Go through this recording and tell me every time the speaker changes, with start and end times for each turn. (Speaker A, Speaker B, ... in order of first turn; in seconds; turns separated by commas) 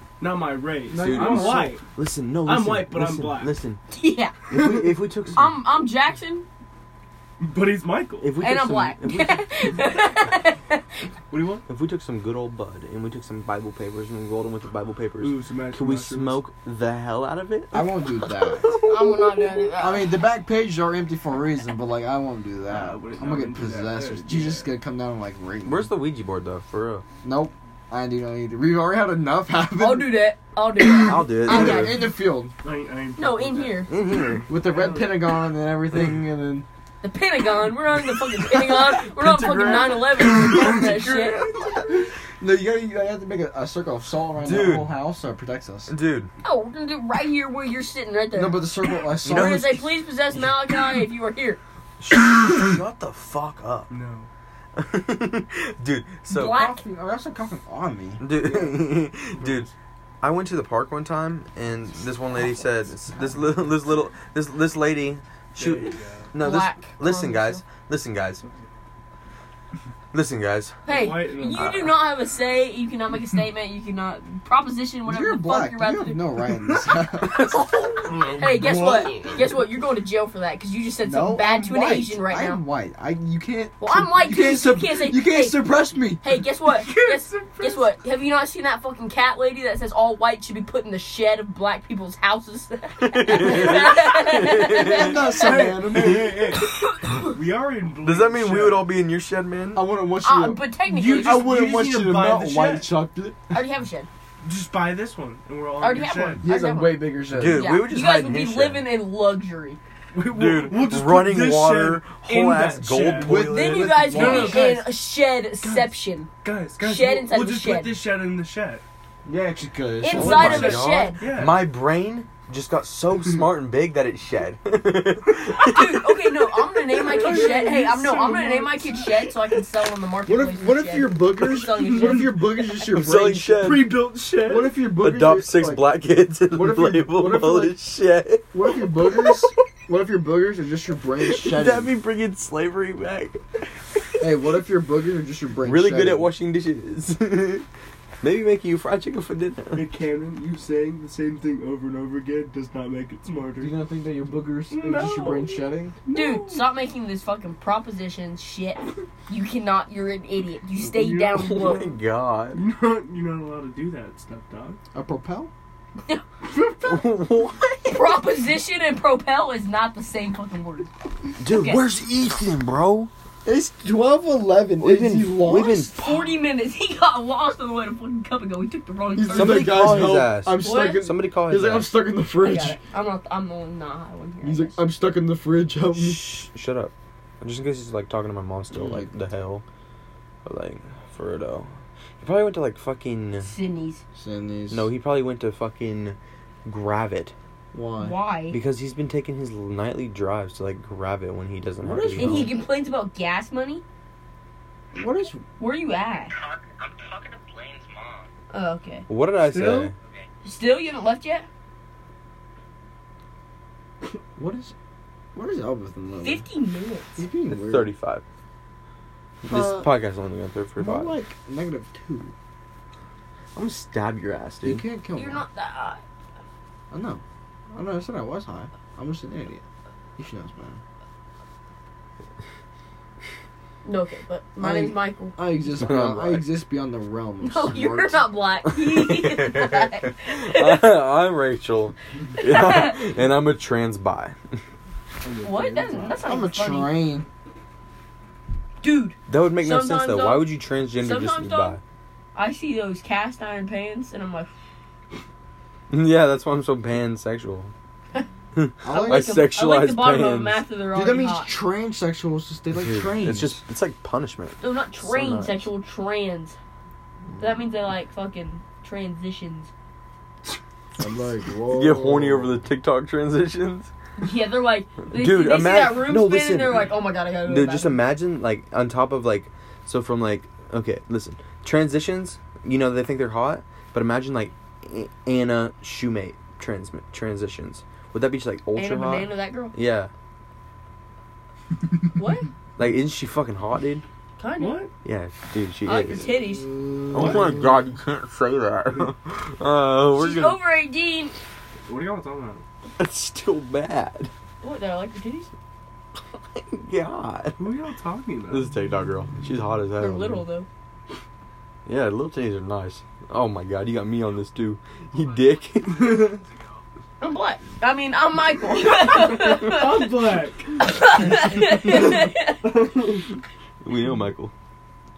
Speaker A: 0.2-1.9, Speaker B: 0.9-1.8, Speaker C: 1.0-3.8, Speaker A: 2.4-3.5, Speaker D: 3.9-4.4, Speaker C: 4.5-5.6, Speaker D: 5.3-6.5, Speaker A: 7.4-8.3, Speaker C: 8.2-9.8, Speaker D: 8.4-10.8, Speaker A: 11.3-11.7, Speaker C: 11.7-18.9, Speaker A: 15.2-16.4, Speaker B: 17.7-18.8, Speaker D: 18.8-20.2, Speaker B: 19.8-25.9, Speaker A: 22.7-24.7, Speaker C: 25.6-27.1, Speaker B: 27.2-30.2, Speaker D: 29.8-32.0, Speaker B: 31.0-32.5, Speaker C: 31.0-32.0, Speaker A: 32.6-33.9, Speaker D: 33.2-33.9, Speaker C: 33.9-34.5, Speaker B: 34.5-36.7, Speaker A: 34.5-35.2, Speaker D: 37.0-41.4, Speaker C: 39.0-41.8, Speaker B: 40.2-45.9, Speaker C: 44.4-44.9, Speaker C: 45.9-46.3, Speaker D: 46.4-51.6, Speaker B: 48.3-49.8, Speaker C: 49.2-49.8, Speaker C: 52.0-53.9, Speaker A: 53.9-54.3, Speaker C: 54.8-56.6, Speaker D: 56.3-56.8, Speaker B: 56.4-58.9, Speaker C: 58.2-68.4, Speaker A: 59.4-59.7, Speaker A: 65.6-66.3, Speaker D: 66.4-67.6, Speaker C: 70.1-70.8, Speaker A: 70.8-71.9, Speaker D: 70.9-76.2, Speaker B: 75.1-77.5, Speaker C: 77.4-78.2, Speaker D: 77.5-82.6, Speaker A: 78.4-79.3, Speaker B: 81.0-86.2, Speaker D: 83.8-95.7, Speaker A: 86.8-87.9, Speaker C: 93.0-95.2, Speaker B: 94.8-96.5, Speaker A: 95.3-98.9, Speaker D: 96.9-97.3, Speaker C: 98.0-99.8, Speaker B: 99.8-103.5, Speaker D: 100.2-101.5, Speaker A: 100.9-102.9, Speaker D: 103.5-104.1, Speaker A: 104.4-106.5, Speaker D: 105.8-109.8, Speaker B: 106.4-107.7, Speaker C: 107.3-108.9, Speaker A: 110.1-115.0, Speaker C: 110.2-113.6, Speaker B: 113.2-114.7, Speaker D: 113.4-116.3, Speaker A: 115.6-118.8, Speaker D: 116.8-118.0, Speaker B: 119.2-120.8, Speaker D: 120.0-121.2, Speaker C: 120.1-126.4, Speaker A: 120.2-121.7, Speaker D: 125.5-132.8, Speaker A: 127.0-129.1, Speaker B: 130.3-135.9, Speaker A: 131.8-132.3, Speaker C: 132.9-133.9, Speaker A: 133.6-134.8, Speaker C: 134.9-139.5, Speaker B: 136.5-137.8, Speaker B: 138.5-141.9, Speaker C: 141.3-143.4, Speaker B: 144.2-146.3, Speaker C: 145.6-147.7, Speaker C: 148.2-149.9, Speaker A: 149.7-153.8, Speaker B: 153.6-155.9, Speaker A: 154.7-156.7, Speaker D: 156.1-161.9, Speaker A: 160.8-161.9, Speaker C: 161.3-162.6, Speaker A: 162.5-164.8, Speaker B: 164.9-165.5, Speaker C: 166.8-168.1, Speaker D: 167.9-170.9, Speaker C: 171.4-173.1, Speaker D: 171.4-171.8, Speaker B: 173.4-175.9, Speaker C: 174.8-176.3, Speaker D: 175.5-179.8, Speaker B: 179.2-182.8, Speaker C: 179.3-181.9, Speaker D: 180.6-181.1, Speaker D: 182.4-184.8, Speaker B: 184.4-186.3, Speaker C: 185.9-189.6, Speaker B: 188.7-189.1, Speaker C: 190.4-191.7, Speaker C: 192.2-193.5, Speaker D: 193.4-194.0, Speaker B: 194.2-194.9, Speaker C: 194.7-197.3, Speaker B: 197.7-198.2, Speaker D: 198.0-198.6, Speaker C: 198.5-202.5, Speaker B: 201.8-202.6, Speaker D: 202.2-203.8, Speaker B: 204.9-205.4, Speaker D: 205.6-206.3, Speaker E: 206.3-208.3, Speaker D: 208.5-209.1, Speaker C: 209.1-209.9, Speaker A: 209.5-209.9, Speaker D: 210.4-211.5, Speaker B: 214.4-214.7, Speaker B: 215.3-216.5, Speaker D: 216.2-217.2, Speaker B: 217.2-217.9, Speaker C: 217.5-218.2, Speaker C: 219.4-221.2, Speaker B: 219.5-219.9, Speaker B: 220.8-222.3, Speaker C: 223.6-224.8, Speaker B: 224.6-225.5, Speaker D: 225.2-226.0, Speaker B: 226.9-227.2, Speaker B: 227.7-229.6, Speaker B: 230.2-230.8, Speaker D: 233.8-235.4, Speaker B: 234.6-238.3, Speaker C: 235.7-236.5, Speaker D: 237.4-240.9, Speaker C: 238.7-244.4, Speaker D: 242.4-243.0, Speaker A: 245.2-246.2, Speaker D: 245.4-246.9, Speaker B: 246.2-247.3, Speaker D: 248.8-251.8, Speaker C: 249.3-251.8, Speaker D: 252.3-254.5, Speaker C: 255.9-257.7, Speaker C: 258.6-260.6, Speaker B: 258.8-259.5, Speaker D: 258.9-261.6, Speaker B: 260.9-263.6, Speaker C: 262.7-264.6, Speaker D: 264.6-266.6, Speaker B: 265.1-265.5, Speaker C: 265.2-265.5, Speaker D: 267.4-269.7, Speaker B: 271.0-272.6, Speaker C: 271.7-273.9, Speaker D: 274.2-278.0, Speaker C: 275.1-290.1, Speaker D: 288.8-289.8, Speaker D: 292.1-292.5, Speaker C: 292.8-294.0, Speaker D: 294.4-294.9, Speaker A: 294.6-294.9, Speaker C: 295.0-296.3, Speaker D: 295.9-296.8, Speaker B: 296.5-297.8, Speaker C: 297.1-300.6, Speaker D: 300.2-301.4, Speaker A: 301.9-302.6, Speaker C: 303.0-304.3, Speaker D: 304.6-305.5, Speaker C: 306.5-307.6, Speaker A: 307.6-308.7, Speaker C: 308.5-310.4, Speaker D: 310.0-310.7, Speaker C: 311.9-316.3, Speaker A: 316.0-316.4, Speaker D: 317.2-320.1, Speaker A: 319.2-320.9, Speaker D: 320.8-322.7, Speaker A: 321.9-323.3, Speaker C: 323.8-324.5